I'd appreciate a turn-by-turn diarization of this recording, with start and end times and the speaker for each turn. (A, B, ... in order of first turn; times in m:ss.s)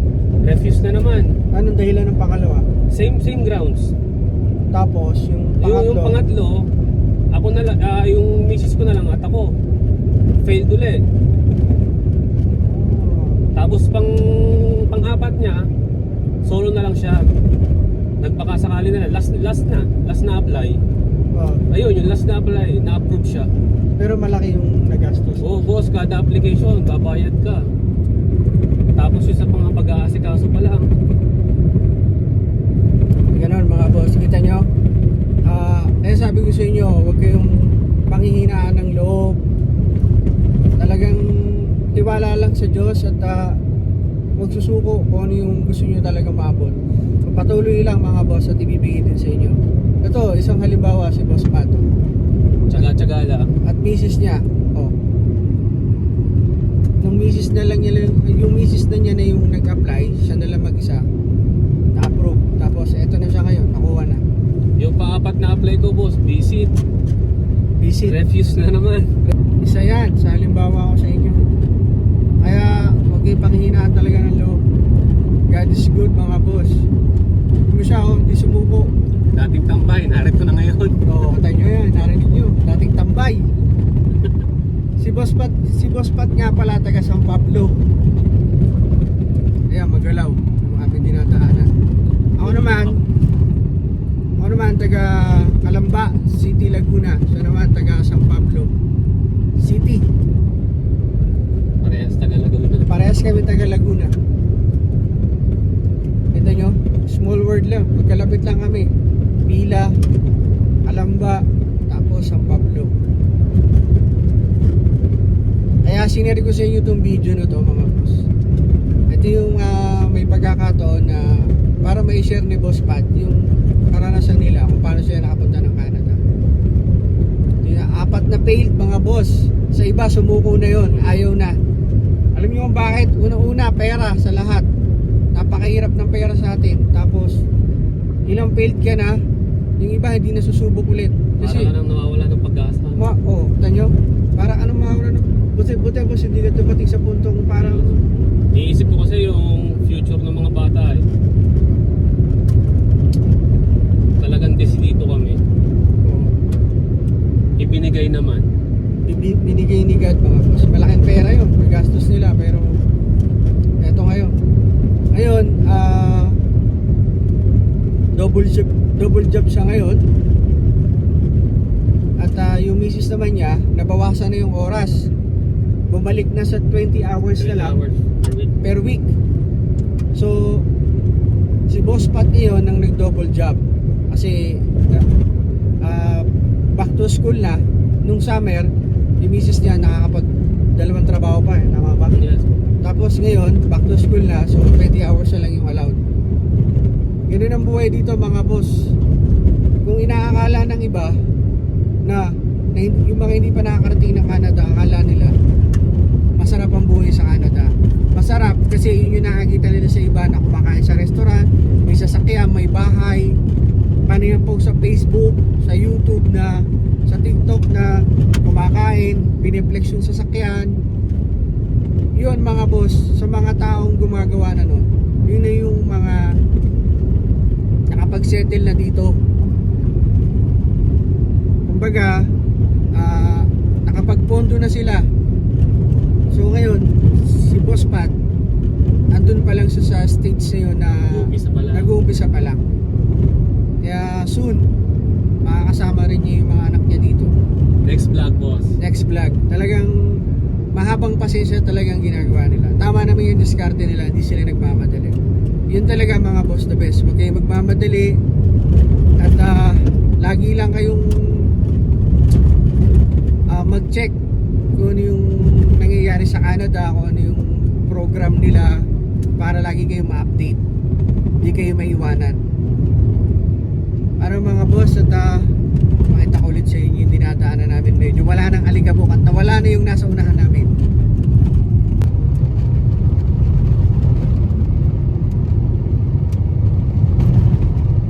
0:00.4-0:01.3 A
0:01.5-0:02.7 B
0:02.9-0:03.9 A
0:04.7-0:06.2 B
0:05.6-0:06.7 A
0:07.3-0:09.5 A
0:10.4-0:11.0 A
0:12.6-0:13.5 B
0:13.6-0:15.6 A
0:16.4-0:17.2 A
0:18.2-0:20.8 A
0:21.4-0:21.6 B
0:21.7-0:23.5 A
0:24.0-0:25.7 B
0:25.4-0:27.6 A
0:29.0-0:30.9 A
0:33.3-0:34.7 B
0:35.5-0:39.4 B
0:40.8-0:43.6 B
0:44.4-0:51.8 B
0:52.7-0:53.5 A
0:53.6-0:54.9 B
0:57.0-1:01.0 B
1:02.0-1:04.2 B
1:04.8-1:06.8 A
1:07.8-1:08.2 B
1:08.0-1:09.1 A
1:09.6-1:11.4 B
1:12.4-1:14.6 B
1:15.5-1:16.7 B
1:17.7-1:18.9 B
1:19.3-1:21.0 A
1:21.1-1:23.5 B
1:25.0-1:27.8 B
1:29.7-1:31.7 B
1:32.4-1:33.0 B
1:32.4-1:33.0 A
1:34.4-1:38.7 B
1:39.6-1:40.0 B
1:41.8-1:42.9 A
1:42.9-1:44.1 B
1:46.3-1:48.9 B
1:49.5-1:49.9 B
1:50.9-1:52.9 B
1:55.9-1:58.2 B
1:59.1-2:01.3 B
2:01.8-2:03.4 B
2:03.9-2:06.2 B
2:07.6-2:11.6 B
2:10.9-2:11.2 A
2:12.4-2:14.7 B
2:15.4-2:17.4 B
2:18.3-2:19.2 B
2:19.8-2:21.7 B
2:21.4-2:23.1 A
2:23.0-2:27.8 B
2:27.5-2:28.0 A
2:28.5-2:31.0 A
2:34.2-2:35.4 A
2:36.0-2:36.3 B
2:37.6-2:38.5 A
2:39.1-2:42.7 B
2:43.8-2:44.4 B
2:45.1-2:46.4 B
2:48.2-2:50.0 B
2:52.2-2:55.1 B
2:55.9-2:57.8 B
2:57.4-2:58.6 A
2:58.6-2:59.1 B
3:00.2-3:00.6 B
3:01.7-3:05.0 B
3:05.8-3:12.1 B
3:12.1-3:12.5 A
3:12.8-3:16.0 B
3:17.3-3:18.7 B
3:19.8-3:21.1 B
3:22.8-3:25.3 B
3:26.4-3:33.3 B
3:34.1-3:40.7 B
3:42.2-3:46.2 B
3:47.9-3:49.2 B
3:51.7-3:52.2 B
3:53.0-3:55.0 B
3:56.3-3:58.1 B
3:59.1-4:02.6 B
4:01.1-4:01.9 A
4:03.8-4:04.6 B
4:05.4-4:07.3 B
4:07.8-4:08.7 A
4:08.8-4:09.9 B
4:10.7-4:15.2 B
4:15.7-4:18.2 B
4:19.2-4:21.5 B
4:23.5-4:24.2 B
4:24.8-4:28.7 B
4:29.4-4:30.6 B
4:31.4-4:32.4 B
4:34.2-4:35.4 B
4:36.1-4:40.7 B